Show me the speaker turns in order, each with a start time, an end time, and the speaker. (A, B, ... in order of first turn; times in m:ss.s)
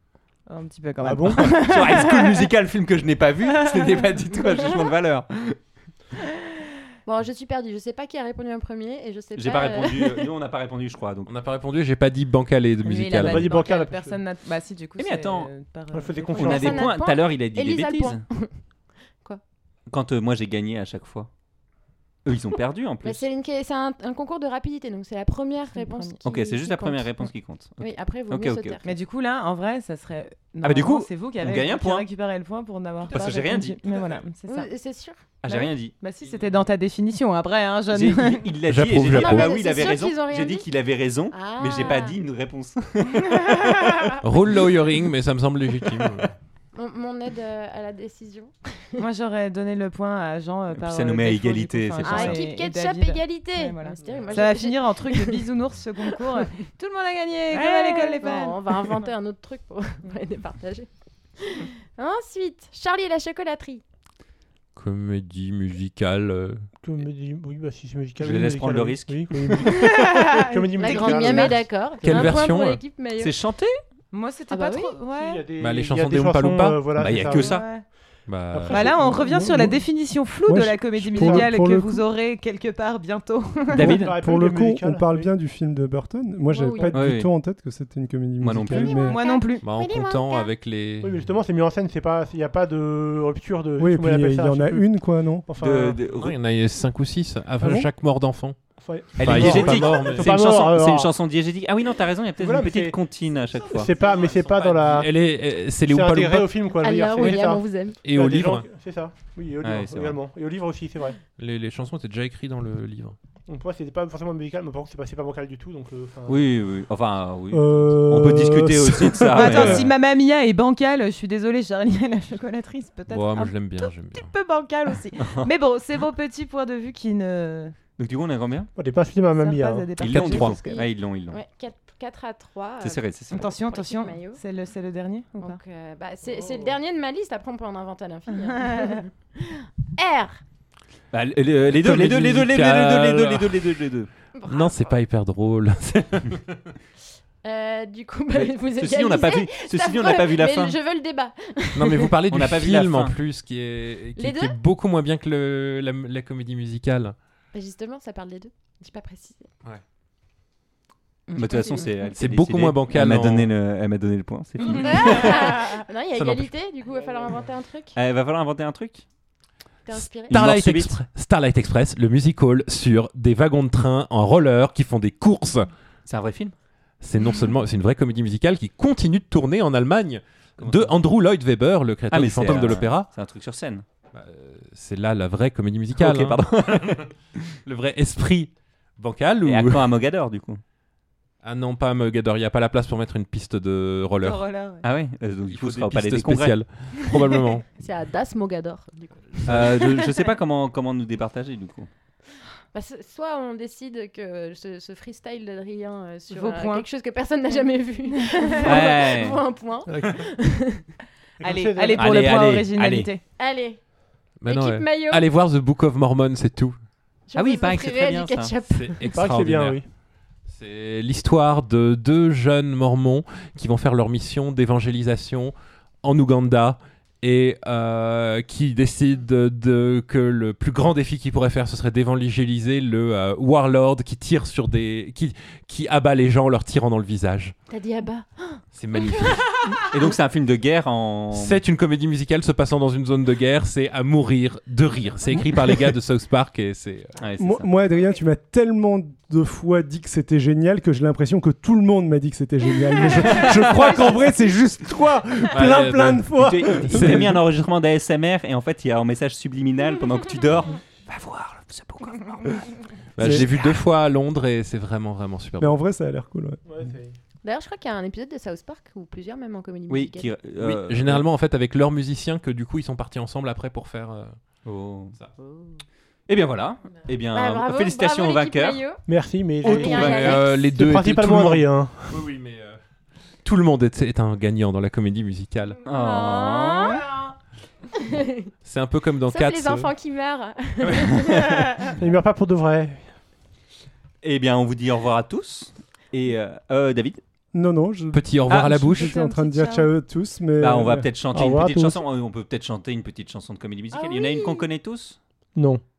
0:00.5-0:02.4 A
0:01.0-0:01.5 B
0:01.5-0:05.6 C
0:03.7-0:04.2 A
0:07.0-0:10.2 D
0:09.3-0:11.3 C
0:11.2-0:13.6 E
0:12.8-0:16.8 A
0:13.2-0:14.2 B
0:15.0-0:15.5 C
0:15.9-0:16.8 B
0:16.3-0:18.6 D
0:16.4-0:18.2 C
0:19.9-0:21.3 C
0:22.2-0:23.2 C
0:23.0-0:29.0 D
0:25.7-0:26.1 A
0:26.2-0:28.8 C
0:28.8-0:34.7 A
0:30.6-0:32.1 C
0:33.1-0:34.0 C
0:34.5-0:35.2 D
0:35.4-0:36.0 C
0:35.5-0:38.5 A
0:37.9-0:44.2 C
0:38.6-0:39.6 E
0:39.1-0:40.7 D
0:41.3-0:42.2 D
0:44.2-0:46.3 E
0:46.7-0:49.0 D
0:49.0-0:58.8 A
0:50.7-0:52.4 C
0:52.0-0:55.4 D
0:57.5-1:00.9 D
1:01.4-1:03.8 D
1:04.8-1:06.6 E
1:06.8-1:11.7 B
1:08.2-1:09.2 C
1:09.6-1:12.1 A
1:10.8-1:13.3 D
1:12.0-1:12.8 E
1:13.2-1:13.8 C
1:14.1-1:15.5 A
1:14.5-1:14.9 D
1:15.1-1:17.6 B
1:15.6-1:17.2 E
1:17.0-1:17.8 C
1:17.4-1:17.9 A
1:18.3-1:19.0 E
1:18.5-1:19.3 B
1:18.7-1:23.9 A
1:19.2-1:22.0 F
1:23.7-1:29.3 F
1:23.8-1:24.1 C
1:23.8-1:25.3 B
1:26.5-1:27.0 D
1:26.9-1:27.3 C
1:28.4-1:29.0 C
1:28.7-1:30.5 D
1:29.0-1:29.6 A
1:29.6-1:31.3 E
1:31.0-1:36.1 B
1:33.8-1:35.5 F
1:35.6-1:36.4 C
1:36.1-1:40.4 E
1:37.6-1:37.9 F
1:38.7-1:41.1 B
1:39.2-1:43.9 C
1:42.4-1:43.0 B
1:43.3-1:46.5 E
1:43.7-1:45.2 B
1:45.8-1:51.2 B
1:46.8-1:48.0 D
1:48.0-1:48.6 E
1:49.6-1:50.2 C
1:51.4-1:53.2 E
1:53.5-1:56.5 B
1:56.3-1:59.9 C
1:57.5-1:59.9 B
1:59.3-2:07.7 A
2:03.1-2:04.3 E
2:05.2-2:05.5 C
2:08.0-2:08.7 C
2:08.8-2:10.0 B
2:09.3-2:10.8 A
2:10.0-2:11.4 C
2:10.0-2:10.6 E
2:10.5-2:14.4 D
2:12.8-2:13.6 C
2:13.3-2:15.6 A
2:15.4-2:20.4 D
2:21.1-2:24.1 C
2:21.7-2:23.8 E
2:24.3-2:25.0 D
2:24.5-2:26.4 E
2:27.4-2:32.1 D
2:28.3-2:30.8 C
2:31.7-2:37.1 E
2:32.3-2:33.2 C
2:34.2-2:34.6 D
2:37.5-2:39.5 D
2:41.3-2:42.0 D
2:41.3-2:45.8 C
2:42.1-2:43.5 E
2:44.6-2:48.0 D
2:46.2-2:46.5 E
2:47.9-2:49.0 C
2:49.8-2:50.4 D
2:49.9-2:55.7 E
2:50.3-2:51.0 C
2:56.0-2:56.5 C
2:57.0-3:03.1 E
3:00.6-3:01.0 C
3:02.1-3:03.8 C
3:04.1-3:07.0 E
3:05.9-3:07.4 C
3:07.6-3:09.9 E
3:09.4-3:10.6 C
3:11.4-3:14.4 E
3:14.2-3:14.8 A
3:14.8-3:16.6 C
3:15.5-3:17.6 E
3:17.8-3:20.2 D
3:19.5-3:21.9 C
3:22.7-3:30.8 D
3:26.3-3:26.9 A
3:28.1-3:28.7 A
3:28.6-3:29.4 C
3:29.9-3:30.2 B
3:31.4-3:32.3 B
3:31.4-3:33.2 A
3:32.0-3:33.1 C
3:33.4-3:33.8 D
3:34.4-3:36.7 E
3:34.5-3:35.2 D
3:37.3-3:39.1 D
3:37.3-3:38.6 C
3:38.7-3:39.8 E
3:39.1-3:39.9 B
3:40.4-3:57.5 E
3:57.7-4:00.1 D
3:58.8-3:59.5 E
3:59.9-4:01.6 C
4:01.3-4:07.1 E
4:07.2-4:07.7 C
4:07.4-4:14.5 F
4:13.2-4:14.0 C
4:13.6-4:16.6 B
4:15.5-4:17.4 E
4:16.0-4:17.1 F
4:16.4-4:22.8 C
4:23.2-4:25.8 E
4:23.2-4:23.5 F
4:25.6-4:26.6 F
4:26.6-4:27.2 B
4:27.4-4:30.3 D
4:29.9-4:31.2 C
4:30.6-4:34.3 E
4:34.6-4:35.2 C
4:35.4-4:35.8 D
4:36.3-4:38.8 C
4:37.3-4:39.0 D
4:39.0-4:42.2 B
4:39.6-4:40.6 D
4:39.6-4:40.5 C
4:39.7-4:42.8 E
4:43.4-4:45.8 E
4:45.8-4:47.0 C
4:45.9-4:47.3 D
4:47.9-4:48.5 D
4:48.6-4:49.9 E
4:49.3-4:51.8 D
4:50.8-4:51.1 E
4:51.1-4:51.6 C
4:52.0-4:53.1 B
4:54.2-4:57.2 C
4:57.5-5:01.2 F
4:58.1-4:59.1 E
4:58.5-4:58.9 C
4:58.9-4:59.9 A
5:00.6-5:05.2 C
5:01.2-5:02.0 B
5:03.9-5:04.7 D
5:05.5-5:05.8 B